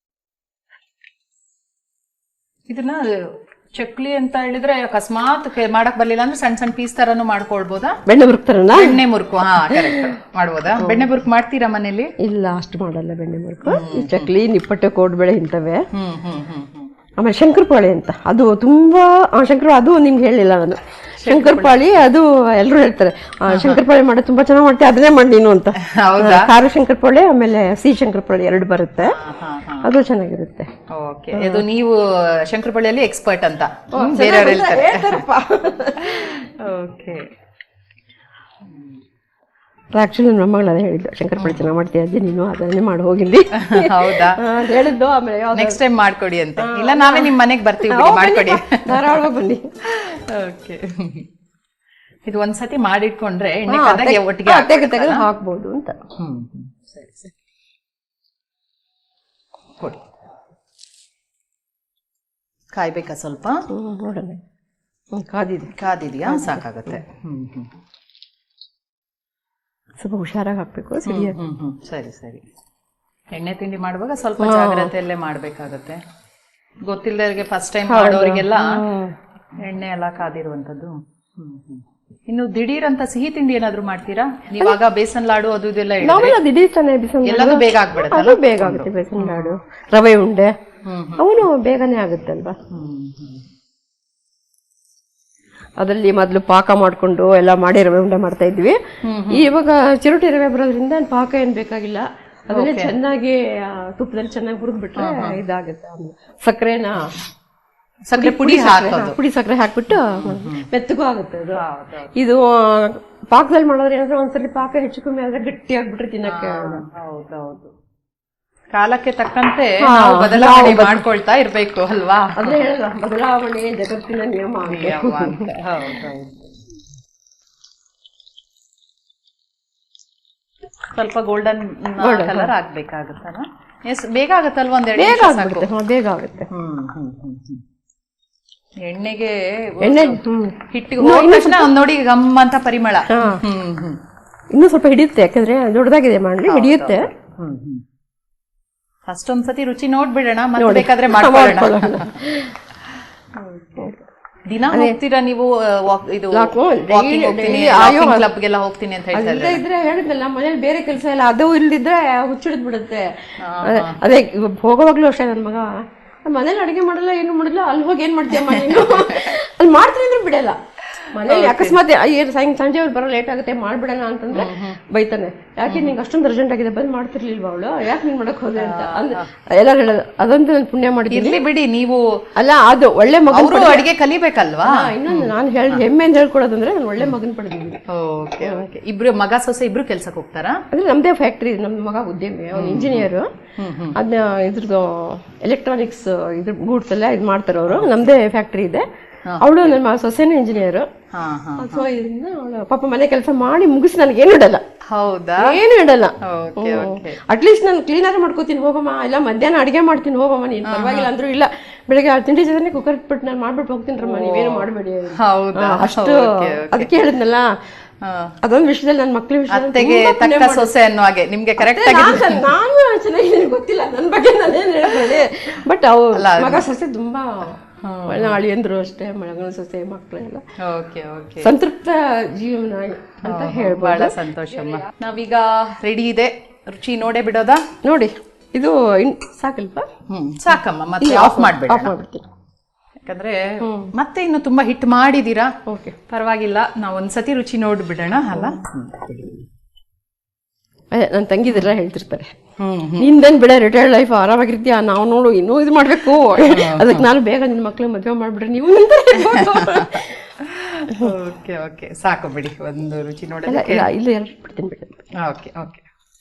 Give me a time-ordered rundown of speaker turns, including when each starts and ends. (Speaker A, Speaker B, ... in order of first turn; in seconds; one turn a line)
Speaker A: 2.7-8.0
Speaker B: 8.1-9.0
Speaker A: 8.7-12.1
Speaker B: 9.6-10.2
Speaker B: 10.8-11.2
Speaker B: 12.2-15.9
Speaker A: 13.7-14.3
Speaker A: 15.9-16.9
Speaker B: 17.2-29.2
Speaker A: 21.2-21.9
Speaker A: 23.5-23.8
Speaker A: 25.8-26.5
Speaker A: 29.0-29.9
Speaker B: 29.8-30.7
Speaker A: 30.9-35.2
Speaker B: 31.3-31.7
Speaker B: 33.9-36.5
Speaker A: 36.0-37.3
Speaker B: 39.9-45.8
Speaker A: 41.4-41.7
Speaker A: 43.5-44.4
Speaker A: 45.5-49.3
Speaker B: 46.6-49.7
Speaker A: 49.9-51.3
Speaker A: 52.3-55.2
Speaker B: 53.7-56.0
Speaker A: 56.2-57.3
Speaker A: 62.7-63.7
Speaker B: 63.7-64.4
Speaker B: 65.1-65.7
Speaker A: 65.7-67.7
Speaker B: 66.3-67.0
Speaker B: 70.0-71.4
Speaker A: 71.0-72.4
Speaker A: 73.3-76.0
Speaker B: 74.4-74.9
Speaker A: 76.9-78.8
Speaker B: 77.9-79.2
Speaker A: 79.6-86.4
Speaker B: 86.0-90.5
Speaker A: 87.2-89.6
Speaker A: 90.8-91.4
Speaker B: 91.2-92.6
Speaker A: 92.7-93.4
Speaker B: 95.8-107.2
Speaker A: 99.0-99.5
Speaker A: 102.5-103.0
Speaker A: 105.0-105.4
Speaker A: 108.1-109.2
Speaker B: 108.2-111.6
Speaker A: 109.9-110.7
Speaker A: 111.5-112.1
Speaker B: 112.2-116.8
Speaker A: 116.2-117.7
Speaker A: 118.7-122.7
Speaker B: 119.8-121.1
Speaker B: 122.3-126.0
Speaker A: 124.6-126.5
Speaker A: 130.9-135.7
Speaker B: 132.0-132.5
Speaker B: 135.0-136.5
Speaker A: 136.5-137.6
Speaker A: 138.8-144.0
Speaker B: 139.8-141.7
Speaker B: 143.1-143.4
Speaker B: 144.5-147.1
Speaker A: 146.4-147.8
Speaker A: 149.1-152.2
Speaker B: 150.6-152.6
Speaker A: 153.4-153.9
Speaker A: 154.5-159.6
Speaker B: 154.7-155.0
Speaker B: 156.3-158.3
Speaker B: 159.1-170.6
Speaker A: 163.4-164.0
Speaker A: 168.3-169.4
Speaker A: 170.9-171.8
Speaker B: 171.1-181.4
Speaker A: 174.3-174.8
Speaker A: 175.7-175.9
Speaker A: 178.6-179.3
Speaker A: 181.1-182.2
Speaker B: 182.4-183.9
Speaker A: 183.3-185.8
Speaker B: 184.6-187.8
Speaker A: 187.9-190.7
Speaker B: 188.4-188.7
Speaker B: 190.7-193.3
Speaker A: 192.5-194.0
Speaker B: 193.9-198.9
Speaker A: 197.7-198.1
Speaker A: 199.3-199.8
Speaker B: 199.4-200.9
Speaker A: 201.1-201.9
Speaker B: 201.6-204.6
Speaker A: 204.9-205.6
Speaker B: 205.4-217.6
Speaker A: 206.2-207.2
Speaker A: 210.7-211.1
Speaker A: 214.0-216.9
Speaker A: 218.0-218.4
Speaker B: 218.4-220.7
Speaker A: 219.5-222.5
Speaker B: 221.6-230.4
Speaker A: 224.9-225.3
Speaker A: 226.1-226.7
Speaker A: 227.8-228.4
Speaker A: 230.6-231.5
Speaker B: 231.4-234.2
Speaker A: 233.2-237.7
Speaker B: 237.8-239.9
Speaker A: 240.1-241.9
Speaker B: 241.0-242.3
Speaker A: 243.1-245.6
Speaker B: 243.6-243.9
Speaker B: 245.7-246.0
Speaker A: 246.1-249.4
Speaker B: 248.3-248.6
Speaker B: 250.9-252.3
Speaker A: 252.6-253.2
Speaker B: 253.0-260.3
Speaker A: 256.4-257.1
Speaker A: 259.2-263.9
Speaker B: 260.9-261.2
Speaker B: 263.5-265.1
Speaker A: 265.2-265.8